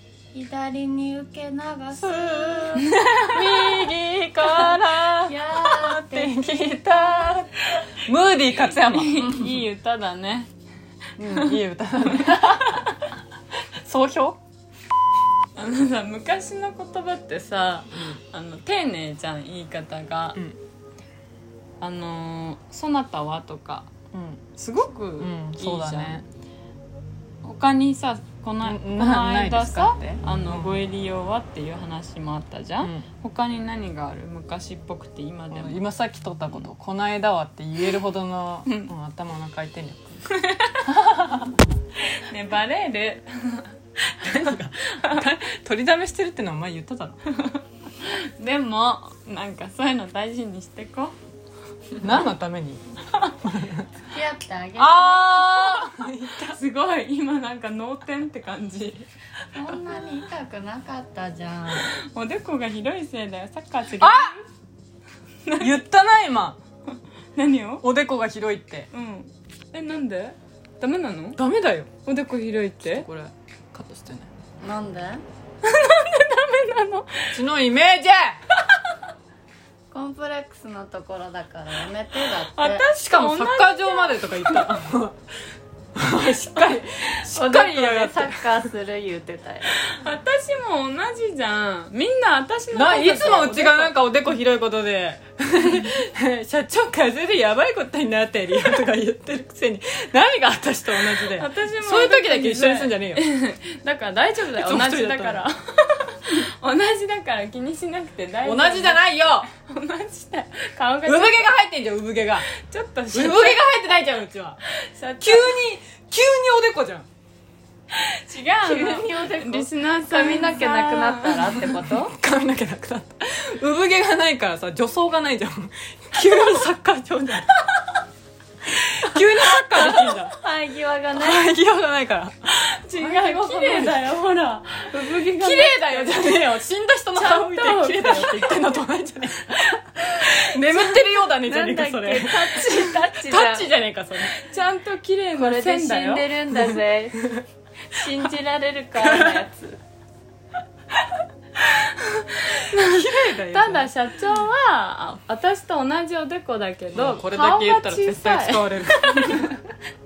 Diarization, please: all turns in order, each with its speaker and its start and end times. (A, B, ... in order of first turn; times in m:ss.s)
0:00.3-0:02.9 A
0:01.9-0:09.5 B
0:02.9-0:03.4 C
0:04.5-0:06.3 A
0:08.9-0:10.5 C
0:11.2-0:12.9 B
0:12.1-0:13.1 C
0:13.8-0:14.4 B
0:15.6-0:20.4 C
0:21.8-0:23.9 C
0:24.1-0:24.4 B
0:24.6-0:26.2 C
0:25.2-0:26.2 B
0:27.4-0:35.8 C
0:28.6-0:30.8 B
0:32.8-0:33.1 B
0:35.5-0:40.3 B
0:38.7-0:38.9 C
0:40.3-0:40.9 C
0:40.8-0:41.6 B
0:42.2-0:45.2 C
0:44.2-0:47.2 B
0:47.4-0:51.1 C
0:52.0-0:52.9 B
0:53.4-0:53.9 B
0:54.1-0:55.7 A
0:54.8-0:56.6 B
0:56.5-0:59.1 C
0:59.5-1:01.9 A
1:01.9-1:04.4 C
1:04.0-1:04.3 B
1:05.4-1:05.8 C
1:05.6-1:06.6 B
1:07.4-1:07.8 C
1:07.8-1:08.9 B
1:08.9-1:11.4 C
1:11.4-1:11.9 B
1:12.0-1:13.1 C
1:12.8-1:14.3 B
1:14.6-1:15.2 A
1:15.6-1:17.4 C
1:17.3-1:18.4 B
1:19.9-1:22.9 A
1:22.5-1:24.7 C
1:23.0-1:25.2 B
1:26.0-1:28.7 B
1:26.2-1:26.8 C
1:27.3-1:29.7 A
1:29.9-1:33.9 C
1:32.7-1:43.2 B
1:41.2-1:51.5 C
1:44.6-1:45.4 B
1:48.4-1:49.5 B
1:51.0-1:52.5 B
1:52.5-1:53.6 C
1:53.1-1:54.6 B
1:54.7-1:55.6 C
1:55.2-1:57.1 B
1:58.0-2:01.7 C
1:58.6-2:02.1 A
2:01.4-2:07.6 B
2:08.7-2:10.4 B
2:09.6-2:11.5 A
2:11.1-2:12.4 B
2:12.6-2:16.5 C
2:13.0-2:14.1 B
2:15.1-2:24.3 B
2:17.1-2:18.8 C
2:20.2-2:21.3 C
2:21.4-2:23.7 A
2:24.2-2:26.4 C
2:25.3-2:27.3 A
2:27.9-2:29.8 A
2:29.0-2:29.4 B
2:31.6-2:39.6 C
2:32.7-2:33.9 B
2:36.9-2:39.6 B